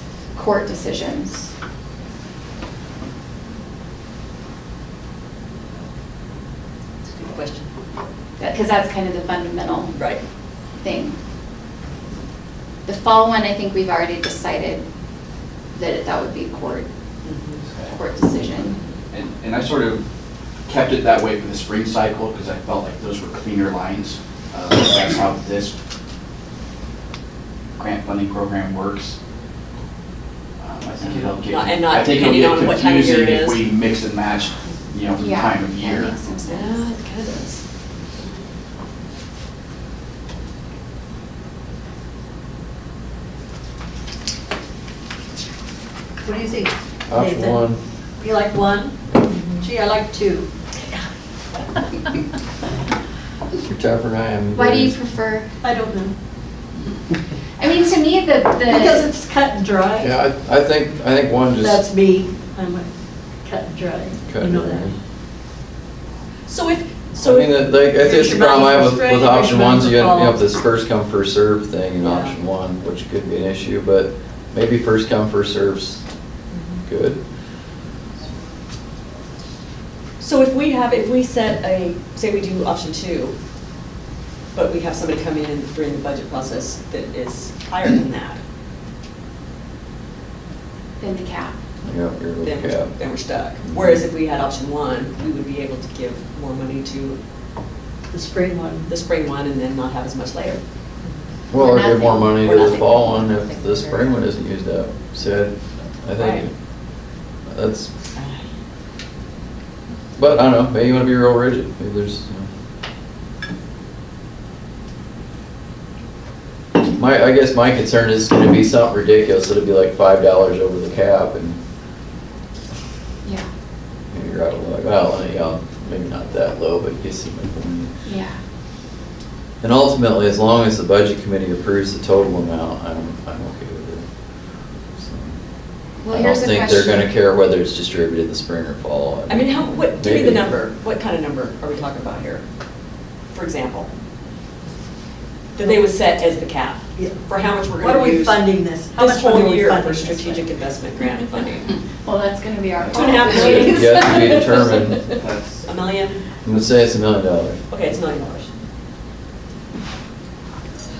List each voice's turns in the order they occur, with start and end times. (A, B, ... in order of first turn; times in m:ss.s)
0:00.3-0:01.5 A
0:07.1-0:07.7 B
0:08.4-0:09.9 A
0:09.9-0:10.2 B
0:10.8-0:11.2 A
0:12.8-0:14.8 A
0:15.7-0:16.9 A
0:17.2-0:17.6 B
0:17.6-0:18.0 C
0:17.9-0:18.8 A
0:19.1-0:20.0 C
0:20.7-0:25.7 C
0:27.8-0:29.2 C
0:30.6-0:36.2 C
0:31.0-0:33.6 B
0:35.2-0:36.9 A
0:36.4-0:37.6 B
0:46.2-0:47.6 D
0:47.1-0:47.8 E
0:48.2-0:49.0 D
0:49.3-0:49.6 B
0:49.6-0:50.5 D
0:53.6-0:54.9 E
0:54.5-0:55.5 A
0:55.6-0:56.1 D
0:57.6-0:59.0 A
0:58.7-1:00.1 D
1:00.0-1:01.8 E
1:01.6-1:02.9 D
1:03.4-1:04.9 D
1:04.2-1:04.9 E
1:06.5-1:07.6 B
1:07.2-1:16.0 E
1:08.0-1:10.4 D
1:12.0-1:12.3 B
1:16.5-1:16.8 B
1:16.8-1:17.2 E
1:20.2-1:23.3 B
1:24.5-1:28.4 B
1:31.0-1:31.5 A
1:31.8-1:32.9 E
1:32.4-1:37.2 B
1:33.6-1:34.0 E
1:38.1-1:38.9 D
1:38.9-1:40.6 B
1:41.5-1:46.5 E
1:41.5-1:42.4 A
1:42.4-1:43.0 B
1:46.2-1:46.4 B
1:47.5-1:47.9 E
1:48.2-1:48.4 B
1:50.2-1:52.5 E
1:56.8-2:01.6 E
2:04.1-2:07.9 E
2:08.0-2:08.4 A
2:09.6-2:14.0 E
2:15.0-2:15.4 E
2:16.0-2:17.1 A
2:16.1-2:20.5 E
2:19.3-2:22.4 B
2:23.3-2:23.9 B
2:25.5-2:31.8 B
2:27.8-2:30.5 D
2:32.0-2:34.1 A
2:32.8-2:33.2 C
2:32.9-2:36.2 B
2:33.2-2:35.1 E
2:35.2-2:35.6 C
2:36.4-2:37.6 E
2:37.7-2:38.5 B